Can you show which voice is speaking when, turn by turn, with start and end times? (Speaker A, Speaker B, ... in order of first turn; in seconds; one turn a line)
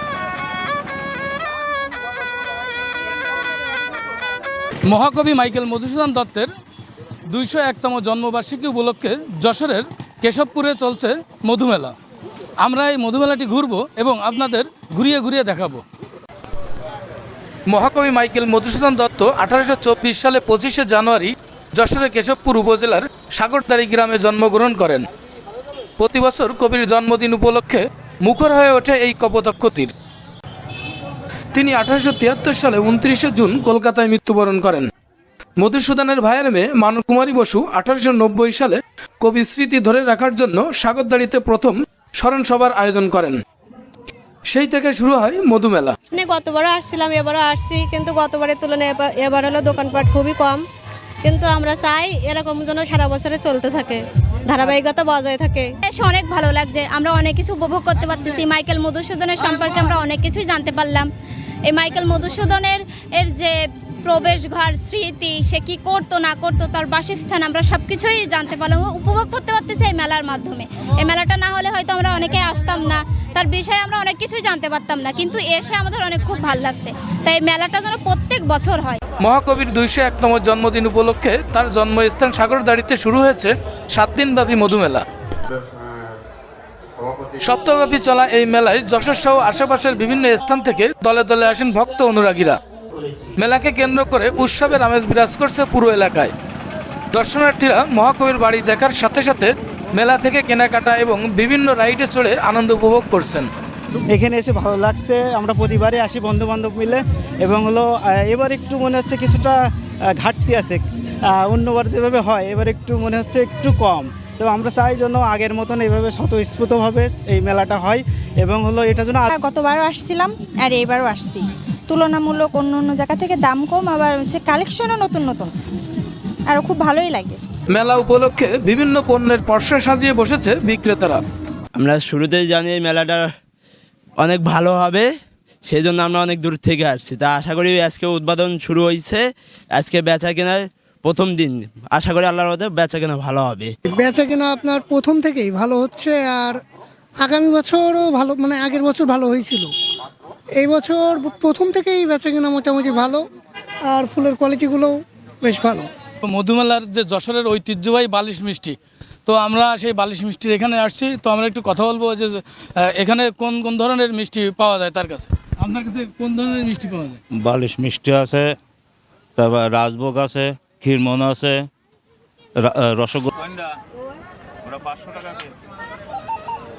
Speaker A: 4.9-6.5
Speaker A: 7.3-11.9
Speaker A: 12.6-15.8
Speaker A: 17.7-25.1
Speaker A: 26.0-29.9
Speaker A: 31.5-34.9
Speaker A: 35.6-43.4
Speaker A: 44.5-45.9
Speaker B: 46.1-50.6
Speaker B: 51.2-55.7
Speaker C: 55.9-61.1
Speaker C: 61.7-79.0
Speaker A: 79.2-85.0
Speaker A: 87.4-92.6
Speaker A: 93.4-96.3
Speaker A: 97.1-103.5
Speaker D: 104.1-109.6
Speaker D: 110.2-119.3
Speaker E: 119.3-125.5
Speaker E: 126.5-127.4
Speaker A: 127.7-131.2
Speaker F: 131.8-133.3
Speaker F: 134.2-135.1
Speaker F: 135.7-143.7
Speaker G: 143.9-146.6
Speaker G: 147.2-149.7
Speaker G: 150.6-153.2
Speaker G: 153.9-155.9
Speaker A: 156.3-158.8
Speaker A: 159.3-167.2
Speaker H: 167.4-168.6
Speaker H: 169.4-171.7
Speaker H: 172.6-173.5
Speaker H: 174.7-175.5